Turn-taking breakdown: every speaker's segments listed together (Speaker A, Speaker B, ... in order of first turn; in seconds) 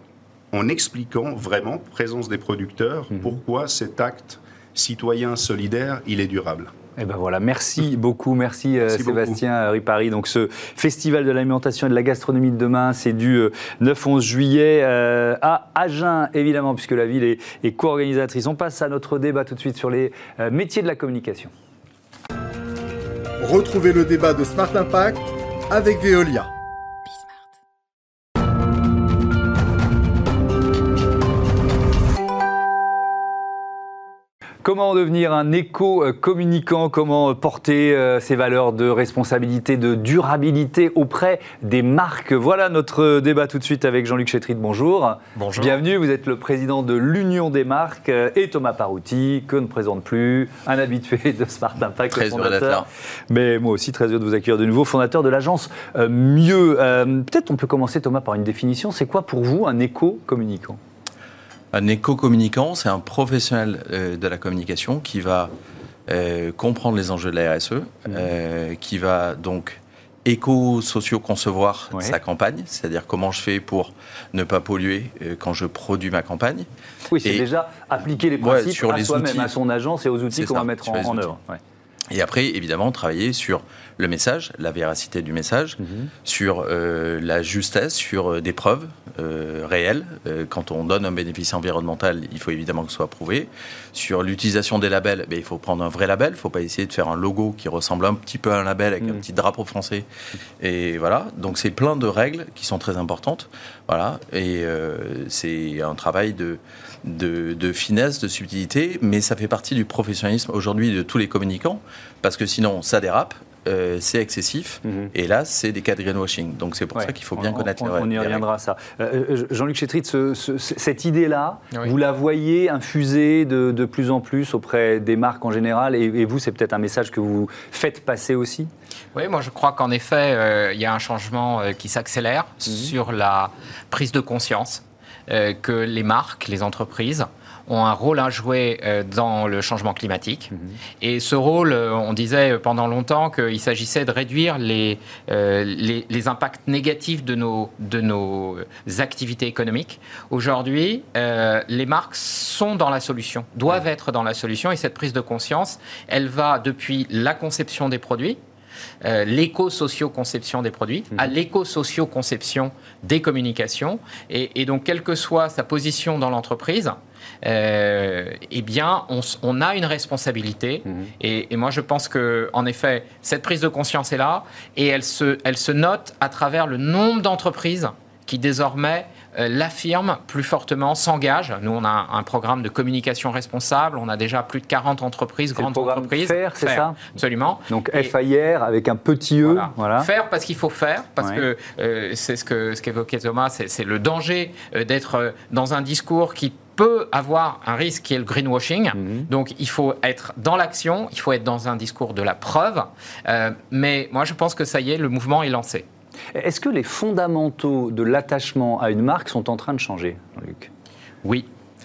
Speaker A: 0.5-6.7, 8.8-9.4
Speaker B: 7.0-21.5, 34.6-60.8, 77.1-81.6, 85.8-86.1, 114.8-115.1, 117.0-128.7, 140.5-140.8, 185.6-187.0, 187.7-190.1, 199.0-199.3, 206.3-210.7
Speaker C: 23.4-26.5
Speaker D: 45.4-45.8, 129.2-158.4, 159.0-188.1, 189.4-205.8
Speaker E: 52.1-52.9, 61.7-65.5, 66.1-76.7, 78.3-79.5, 80.3-81.3, 82.1-100.1, 100.6-118.4